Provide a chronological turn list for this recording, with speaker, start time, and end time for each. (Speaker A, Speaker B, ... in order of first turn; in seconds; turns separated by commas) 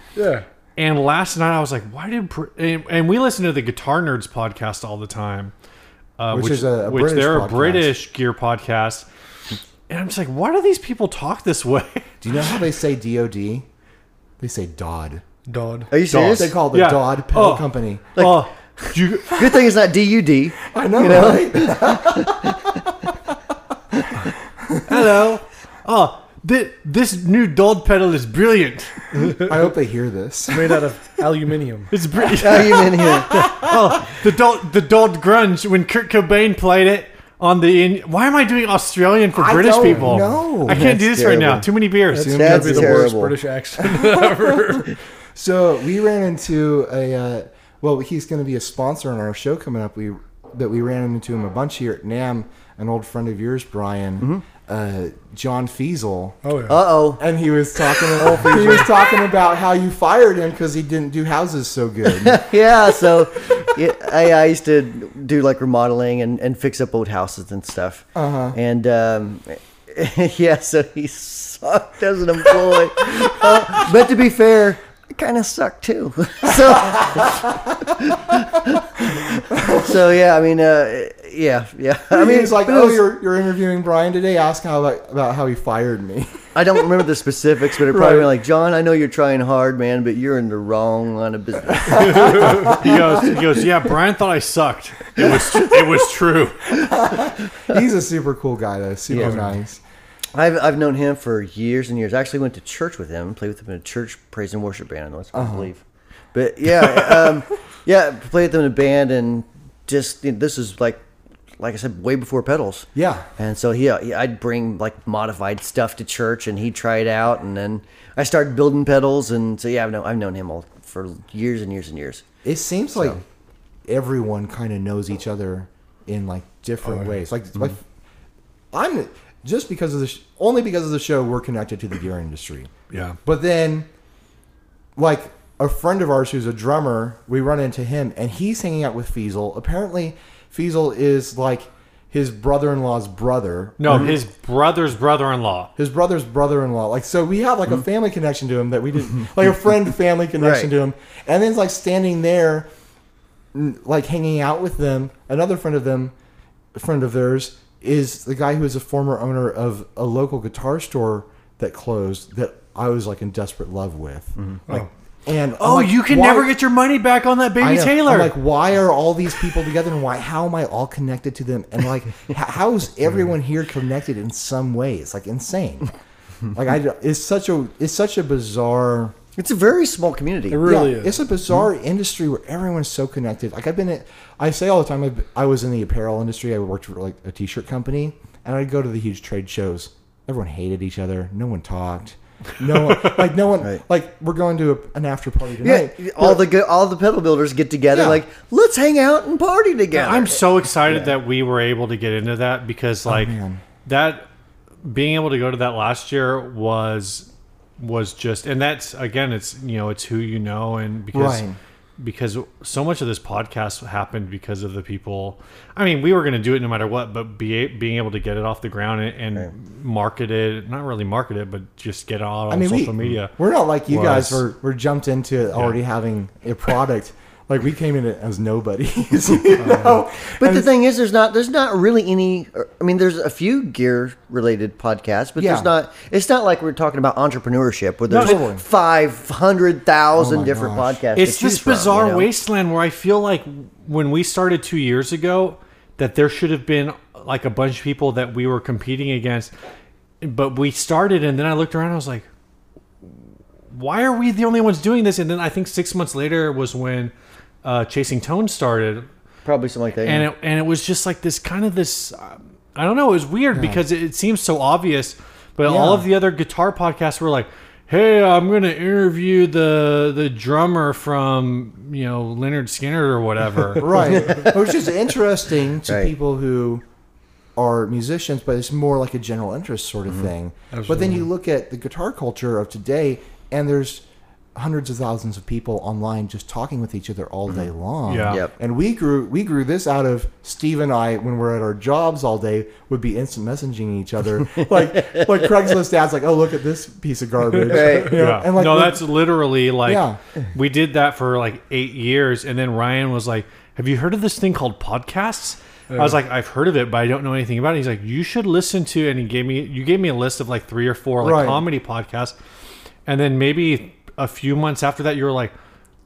Speaker A: 0.1-0.5, Speaker B: 0.8-5.5, Speaker B: 6.2-9.1, Speaker C: 6.3-7.9, Speaker B: 9.9-12.1, Speaker C: 12.2-13.7, Speaker C: 14.4-15.2, Speaker A: 15.5-15.9, Speaker D: 15.9-16.6, Speaker B: 16.1-19.5, Speaker C: 16.3-18.1, Speaker D: 18.2-22.8, Speaker C: 20.7-22.6, Speaker C: 24.6-24.9, Speaker B: 24.9-29.1, Speaker A: 29.1-29.4, Speaker C: 29.4-30.8, Speaker A: 30.5-31.9, Speaker B: 31.9-42.4, Speaker D: 32.4-33.4, Speaker C: 33.3-33.7, Speaker C: 39.3-40.9, Speaker A: 39.9-40.2, Speaker D: 40.6-41.7, Speaker C: 42.1-43.1, Speaker A: 42.1-44.9, Speaker D: 42.3-43.3, Speaker C: 43.8-44.8, Speaker C: 45.3-56.4, Speaker A: 56.4-56.8, Speaker D: 56.7-57.2, Speaker C: 57.2-62.4, Speaker D: 58.0-58.9, Speaker D: 62.1-83.0, Speaker C: 68.1-68.5, Speaker C: 76.9-77.6, Speaker C: 79.5-79.9, Speaker C: 82.1-86.5, Speaker D: 86.5-93.0, Speaker C: 87.9-88.3, Speaker C: 91.9-92.9, Speaker B: 92.0-96.8, Speaker C: 96.8-99.8, Speaker D: 99.1-99.4, Speaker D: 100.3-105.8, Speaker C: 105.3-105.7, Speaker D: 106.3-111.0, Speaker D: 111.6-122.2, Speaker C: 112.9-113.3, Speaker C: 122.4-123.2, Speaker C: 123.9-127.8, Speaker A: 126.8-127.1, Speaker C: 128.7-132.7, Speaker B: 132.9-133.2, Speaker C: 133.2-133.9, Speaker C: 134.9-144.2, Speaker B: 143.8-145.7, Speaker C: 145.8-152.7, Speaker D: 150.4-150.7, Speaker C: 153.5-156.1, Speaker C: 156.7-166.5, Speaker B: 165.6-168.3, Speaker C: 167.6-175.9, Speaker C: 176.5-179.1, Speaker D: 179.4-180.6, Speaker A: 180.5-181.2, Speaker C: 180.6-196.4, Speaker D: 195.6-200.4, Speaker C: 197.9-198.2, Speaker B: 199.9-204.2, Speaker C: 203.1-203.6, Speaker B: 204.8-207.3, Speaker B: 207.8-211.4, Speaker C: 211.1-211.6, Speaker B: 212.0-223.3, Speaker C: 222.5-230.7, Speaker B: 223.9-224.4, Speaker D: 230.3-242.3, Speaker C: 235.4-235.7, Speaker B: 238.1-238.4, Speaker C: 238.1-238.6, Speaker C: 240.2-241.0, Speaker B: 241.2-249.5, Speaker B: 250.2-252.3, Speaker B: 253.7-257.1, Speaker B: 257.6-259.1, Speaker D: 259.4-260.3, Speaker B: 260.0-274.2, Speaker C: 263.5-263.8, Speaker C: 265.6-266.1, Speaker C: 273.8-276.8, Speaker D: 274.1-274.7, Speaker D: 275.9-276.1, Speaker C: 277.6-284.0, Speaker A: 280.7-281.2, Speaker C: 284.5-299.0, Speaker B: 288.1-288.4, Speaker D: 288.3-288.5, Speaker D: 297.6-298.2, Speaker B: 298.1-312.3, Speaker C: 299.8-300.2, Speaker A: 305.9-306.1, Speaker C: 311.2-311.6, Speaker B: 313.1-315.5